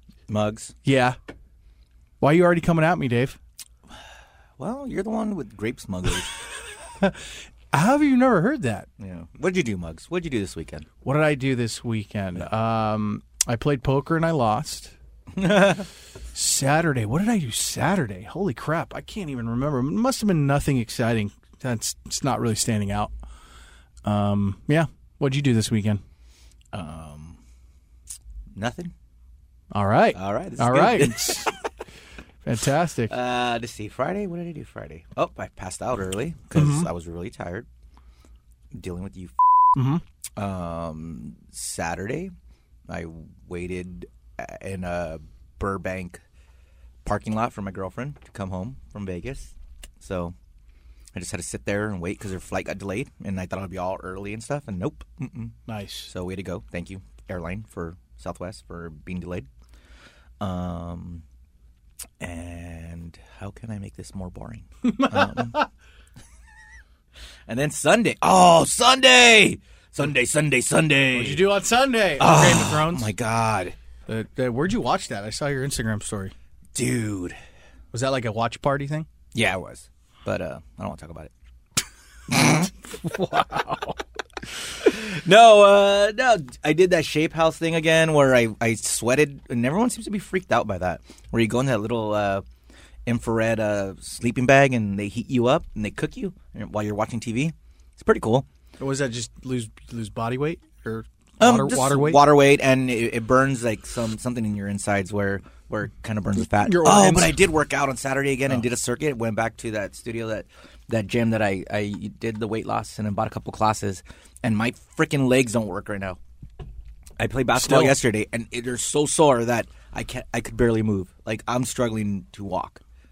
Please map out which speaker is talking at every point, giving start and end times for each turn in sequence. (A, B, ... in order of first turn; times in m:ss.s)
0:00.3-0:00.7 A
0:00.8-0:01.2 B
0:02.2-0:03.4 B
0:04.6-0:06.3 A
0:07.7-0:08.9 B
0:09.0-0:10.9 A
0:11.0-0:14.9 B
0:15.3-0:15.9 A
0:16.3-0:23.1 B
0:24.0-0:26.0 B
0:26.7-0:27.4 A
0:28.6-0:28.9 A
0:29.7-0:31.5 B
0:30.1-0:31.4 A
0:32.4-0:33.1 B
0:33.1-0:37.7 A
0:36.6-0:36.9 B
0:38.7-0:39.3 A
0:39.8-0:40.0 B
0:40.4-0:42.3 A
0:42.9-0:46.2 A
0:47.0-0:50.3 A
0:51.1-0:55.6 A
0:55.7-0:56.1 B
0:56.1-0:59.5 A
1:00.4-1:01.2 A
1:02.2-1:05.6 A
1:04.8-1:05.7 B
1:07.5-1:11.4 A
1:11.1-1:13.1 B
1:12.2-1:13.7 A
1:14.1-1:16.3 B
1:16.7-1:17.4 A
1:17.9-1:19.1 B
1:19.3-1:21.3 A
1:22.3-1:22.7 A
1:23.0-1:23.9 B
1:25.2-1:32.4 A
1:33.0-1:38.4 A
1:38.8-1:42.2 B
1:41.4-1:56.2 A
1:46.4-1:47.4 B
1:57.2-2:02.8 A
1:57.6-1:57.9 B